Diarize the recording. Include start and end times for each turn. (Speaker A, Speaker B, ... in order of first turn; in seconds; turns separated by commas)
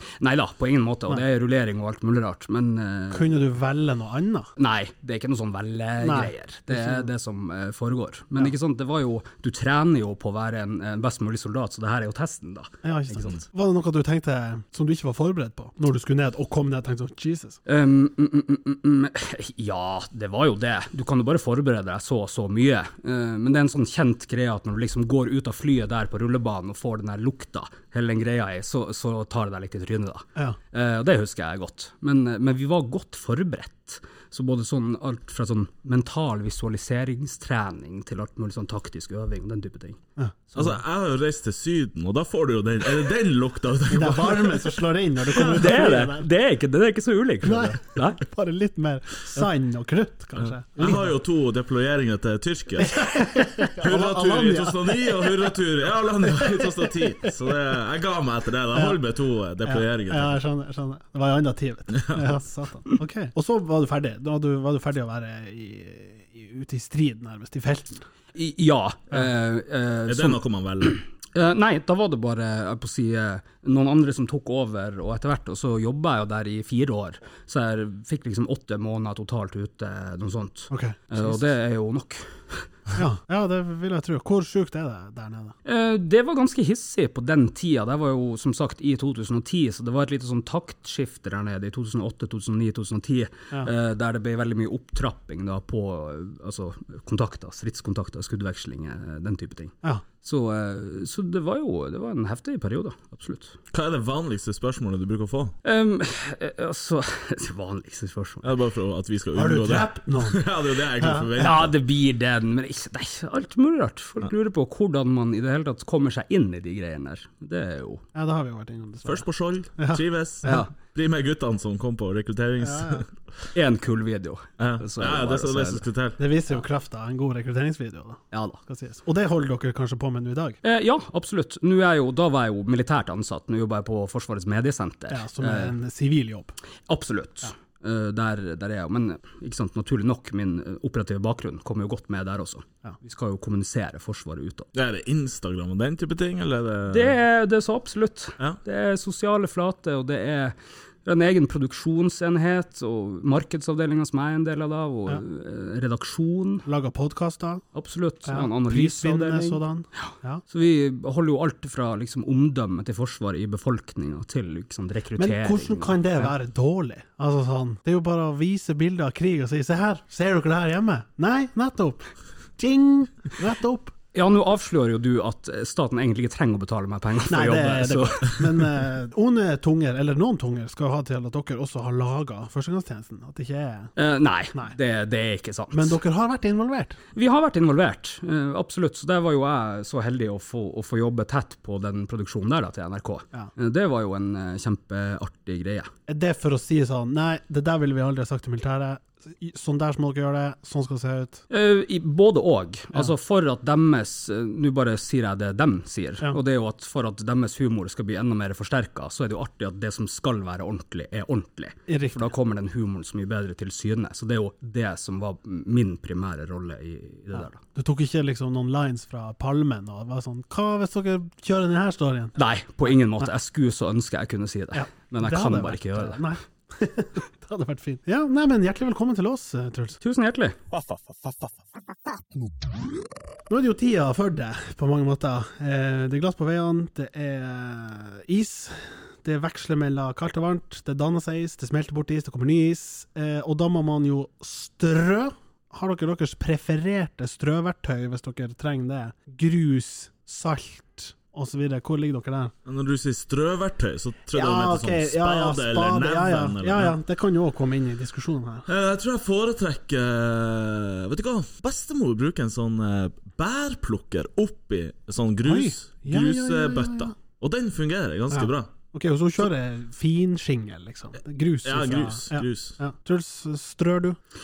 Speaker A: 0.2-3.4, Speaker B: 3.1-4.5, Speaker A: 4.6-13.4, Speaker B: 6.0-7.1, Speaker B: 12.8-17.6, Speaker A: 17.7-40.0, Speaker C: 40.6-44.8, Speaker B: 43.9-46.3, Speaker C: 45.3-45.9, Speaker A: 45.4-48.2, Speaker B: 47.4-51.1, Speaker C: 50.7-60.4, Speaker B: 52.8-55.5, Speaker B: 56.3-57.3, Speaker B: 58.7-59.0, Speaker B: 59.6-68.0, Speaker C: 61.9-62.2, Speaker A: 68.3-70.4, Speaker C: 70.1-71.0, Speaker A: 71.3-82.7, Speaker B: 80.7-81.4, Speaker B: 83.0-85.5, Speaker A: 85.7-103.5, Speaker C: 103.7-105.5, Speaker A: 105.6-108.5, Speaker C: 108.4-111.7, Speaker B: 109.3-110.4, Speaker B: 111.0-111.3, Speaker A: 111.4-118.0, Speaker B: 118.2-119.3, Speaker C: 119.0-123.1, Speaker B: 119.8-120.7, Speaker A: 120.5-120.7, Speaker B: 122.6-123.0, Speaker A: 123.5-125.8, Speaker C: 124.6-126.2, Speaker B: 126.2-130.6, Speaker A: 128.3-128.6, Speaker A: 130.6-135.8, Speaker B: 135.1-136.5, Speaker A: 136.9-144.7, Speaker C: 144.7-147.2, Speaker A: 146.9-156.7, Speaker B: 156.7-157.6, Speaker A: 157.8-166.3, Speaker B: 158.3-160.4, Speaker B: 165.2-172.1, Speaker B: 172.6-173.9, Speaker A: 174.1-178.4, Speaker B: 177.3-183.9, Speaker A: 184.0-186.0, Speaker B: 185.7-187.0, Speaker A: 187.2-195.9, Speaker B: 196.1-201.4, Speaker A: 201.5-217.6, Speaker B: 211.9-212.3, Speaker B: 217.3-222.4, Speaker A: 222.3-226.2, Speaker B: 224.7-230.0, Speaker A: 230.0-230.6, Speaker B: 233.5-252.5, Speaker C: 252.7-256.9, Speaker B: 254.3-258.7, Speaker C: 258.7-268.7, Speaker B: 265.4-267.1, Speaker B: 268.3-274.2, Speaker C: 271.6-272.8